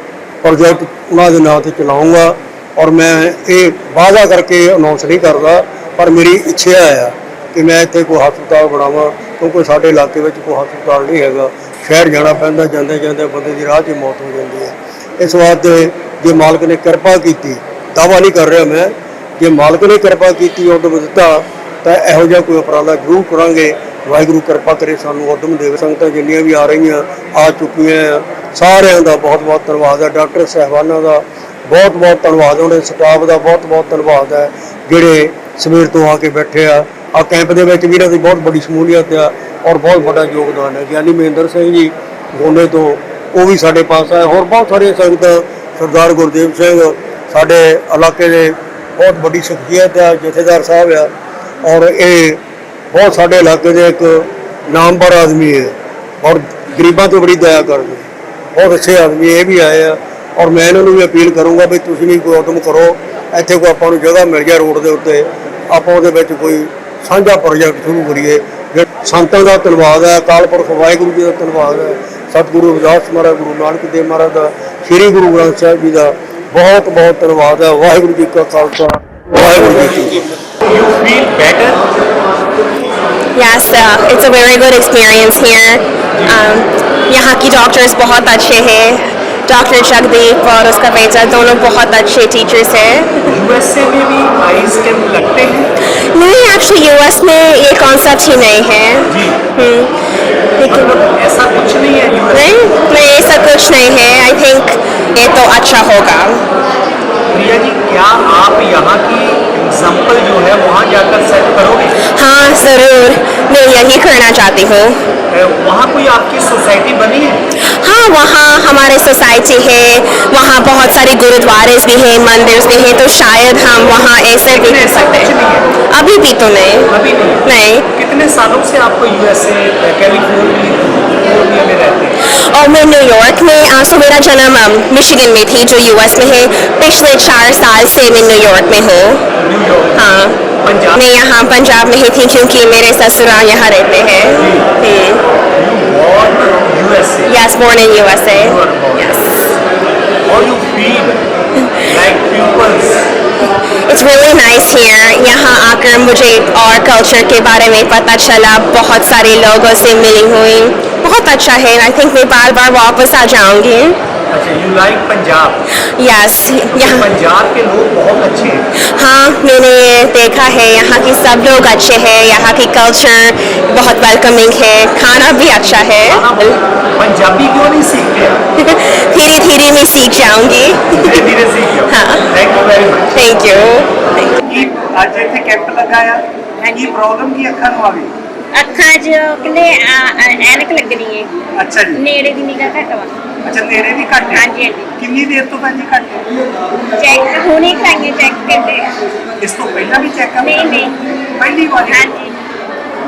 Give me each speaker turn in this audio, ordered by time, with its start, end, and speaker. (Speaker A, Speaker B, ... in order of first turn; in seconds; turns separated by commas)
Speaker A: 0.4-51.1, Speaker A: 51.6-80.2, Speaker B: 80.6-81.8, Speaker C: 83.4-93.4, Speaker B: 86.1-86.4, Speaker B: 93.3-95.7, Speaker C: 96.1-100.0, Speaker B: 99.1-99.4, Speaker C: 100.6-101.0, Speaker B: 100.7-102.5, Speaker C: 102.3-106.4, Speaker B: 107.3-112.0, Speaker C: 112.0-115.0, Speaker B: 115.3-117.4, Speaker C: 117.8-125.3, Speaker B: 124.5-125.8, Speaker C: 125.9-127.9, Speaker B: 126.9-132.2, Speaker C: 132.2-139.3, Speaker B: 139.4-140.1, Speaker C: 140.0-140.4, Speaker B: 140.6-141.0, Speaker C: 140.9-145.2, Speaker B: 144.3-144.7, Speaker B: 145.5-147.3, Speaker C: 147.3-149.3, Speaker B: 148.3-149.2, Speaker B: 150.2-151.2, Speaker B: 151.9-153.0, Speaker C: 153.9-164.0, Speaker B: 164.3-165.6, Speaker C: 166.0-167.1, Speaker B: 166.7-168.7, Speaker C: 168.8-176.5, Speaker B: 176.0-178.4, Speaker C: 178.6-181.3, Speaker B: 180.9-183.4, Speaker C: 181.9-182.3, Speaker C: 183.1-183.9, Speaker B: 184.4-188.1, Speaker D: 186.6-186.9, Speaker D: 188.6-191.3, Speaker B: 191.6-192.0, Speaker D: 192.0-193.1, Speaker B: 193.4-194.4, Speaker D: 194.3-194.9, Speaker B: 195.0-196.3, Speaker D: 197.0-198.9, Speaker B: 199.4-202.1, Speaker D: 200.4-200.9, Speaker D: 201.8-202.4